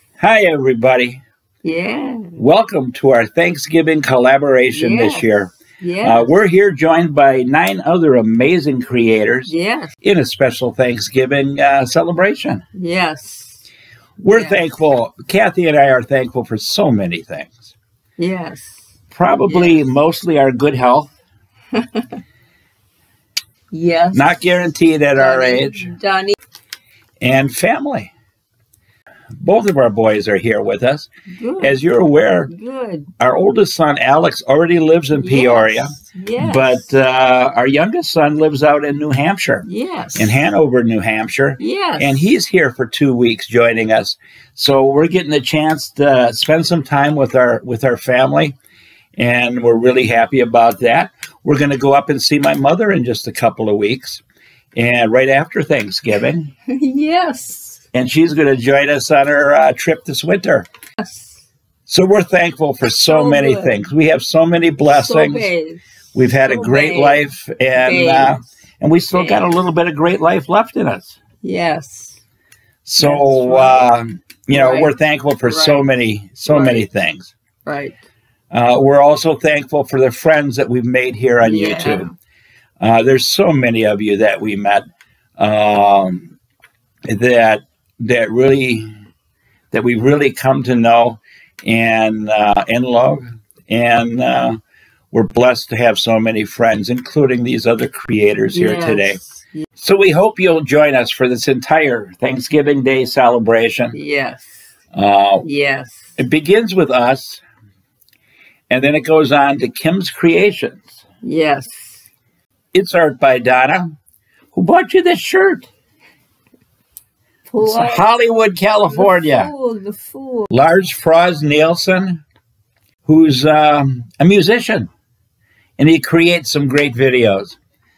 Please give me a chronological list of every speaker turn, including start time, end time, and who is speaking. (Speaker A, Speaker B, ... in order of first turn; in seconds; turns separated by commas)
Speaker A: 0.2-1.2, Speaker B: 1.6-2.4, Speaker A: 2.4-12.6, Speaker B: 4.7-6.3, Speaker B: 9.5-9.9, Speaker B: 12.8-13.7, Speaker A: 14.2-17.7, Speaker B: 14.3-14.7, Speaker B: 18.2-18.9, Speaker A: 19.1-21.2, Speaker B: 19.4-19.9, Speaker B: 21.7-22.2, Speaker B: 23.7-24.6, Speaker A: 24.1-25.9, Speaker B: 25.1-26.4, Speaker A: 27.2-28.1, Speaker A: 29.4-31.1, Speaker B: 31.4-31.8, Speaker A: 31.6-32.5, Speaker B: 32.5-33.1, Speaker A: 33.2-48.6, Speaker B: 35.1-36.9, Speaker B: 39.6-40.4, Speaker B: 41.6-42.3, Speaker A: 49.2-54.2, Speaker A: 54.8-56.5, Speaker B: 56.7-57.8, Speaker A: 57.9-60.7, Speaker B: 61.0-61.4, Speaker A: 61.9-65.5, Speaker B: 62.9-63.9, Speaker B: 64.8-68.5, Speaker A: 66.2-71.2, Speaker B: 69.1-69.6, Speaker B: 71.4-72.2, Speaker A: 72.9-77.3, Speaker B: 73.0-73.9, Speaker B: 74.5-76.9, Speaker B: 77.7-78.0, Speaker A: 78.5-82.1, Speaker B: 81.4-82.1, Speaker A: 82.8-84.8, Speaker A: 85.4-86.4, Speaker A: 87.1-88.9, Speaker A: 89.7-94.6, Speaker A: 95.1-99.2, Speaker B: 98.5-99.6, Speaker A: 99.8-104.0, Speaker B: 103.9-104.6, Speaker A: 104.9-105.5, Speaker B: 105.4-106.0, Speaker A: 106.2-107.4, Speaker A: 108.7-111.0, Speaker B: 111.2-112.0, Speaker A: 112.7-114.0, Speaker A: 114.5-115.7, Speaker B: 117.5-118.1, Speaker A: 117.6-119.5, Speaker B: 118.9-120.5, Speaker A: 120.5-122.2, Speaker A: 123.1-124.9, Speaker A: 125.8-127.6